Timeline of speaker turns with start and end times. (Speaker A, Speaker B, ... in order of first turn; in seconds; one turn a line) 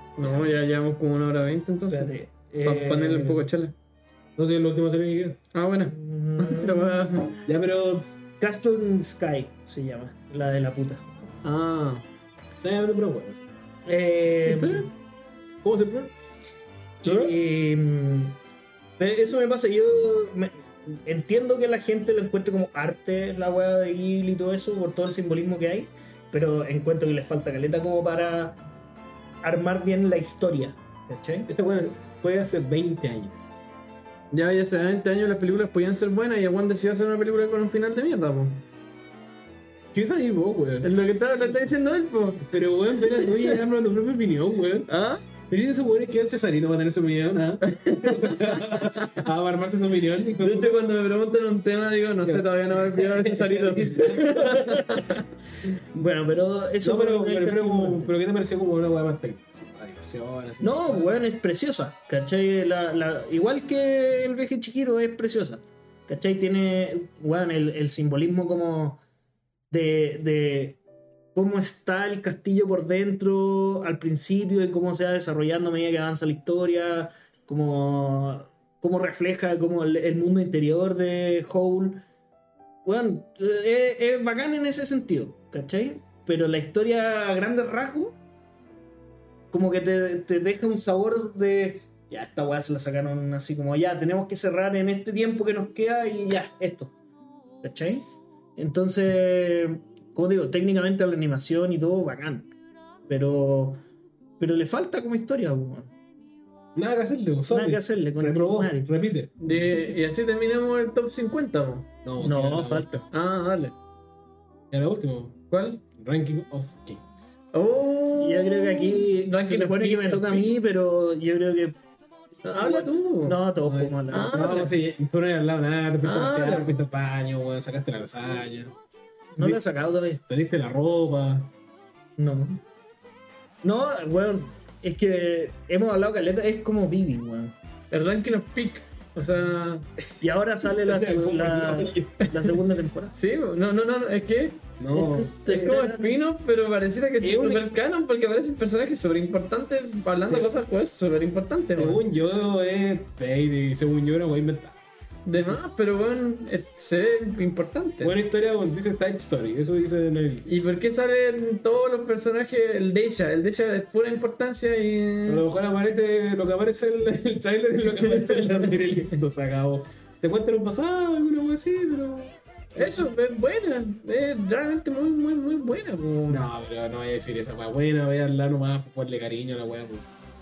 Speaker A: 0.2-3.7
Speaker B: 0.2-0.5
Speaker C: 1.9-3.5
Speaker B: 4.4-5.4
Speaker A: 5.5-7.4
Speaker C: 5.8-6.9
Speaker B: 7.5-8.1
Speaker C: 8.4-11.1
Speaker A: 11.4-12.0
Speaker B: 12.6-13.5
Speaker C: 13.8-14.9
Speaker A: 14.4-14.9
Speaker B: 15.6-16.1
Speaker A: 17.0-17.3
Speaker C: 17.0-18.4
Speaker C: 19.0-28.6
Speaker C: 29.4-31.5
Speaker B: 31.5-33.5
Speaker A: 34.3-38.6
Speaker B: 39.9-40.9
Speaker A: 40.8-42.5
Speaker B: 42.4-44.9
Speaker A: 43.1-43.6
Speaker A: 44.9-45.2
Speaker B: 45.5-50.8
Speaker A: 47.6-49.2
Speaker A: 50.4-55.2
Speaker B: 52.2-54.3
Speaker C: 54.2-55.2
Speaker C: 55.9-58.1
Speaker B: 56.8-61.1
Speaker C: 60.6-69.0
Speaker C: 69.7-70.8
Speaker C: 71.3-82.0
Speaker C: 82.8-88.2
Speaker C: 89.5-96.9
Speaker C: 97.6-102.5
Speaker C: 103.1-103.8
Speaker C: 104.4-105.9
Speaker B: 106.7-109.5
Speaker C: 107.5-108.9
Speaker A: 109.4-111.9
Speaker B: 112.0-113.0
Speaker C: 112.2-113.0
Speaker A: 113.1-113.7
Speaker B: 114.7-115.4
Speaker A: 115.5-115.8
Speaker B: 115.9-117.3
Speaker A: 117.5-120.6
Speaker C: 118.2-121.8
Speaker A: 122.4-123.4
Speaker C: 122.5-124.6
Speaker B: 123.7-128.7
Speaker A: 124.1-124.7
Speaker A: 126.0-126.8
Speaker C: 129.3-130.2
Speaker B: 130.3-131.5
Speaker C: 132.2-132.6
Speaker C: 133.6-137.5
Speaker A: 137.9-139.8
Speaker C: 140.2-143.2
Speaker B: 140.8-142.2
Speaker A: 143.1-144.6
Speaker B: 144.8-145.3
Speaker C: 144.9-146.2
Speaker A: 145.4-152.0
Speaker B: 147.2-147.7
Speaker B: 151.7-154.8
Speaker A: 155.2-158.1
Speaker B: 158.0-160.5
Speaker A: 160.5-165.4
Speaker B: 165.2-173.0
Speaker A: 172.8-176.4
Speaker B: 176.3-180.1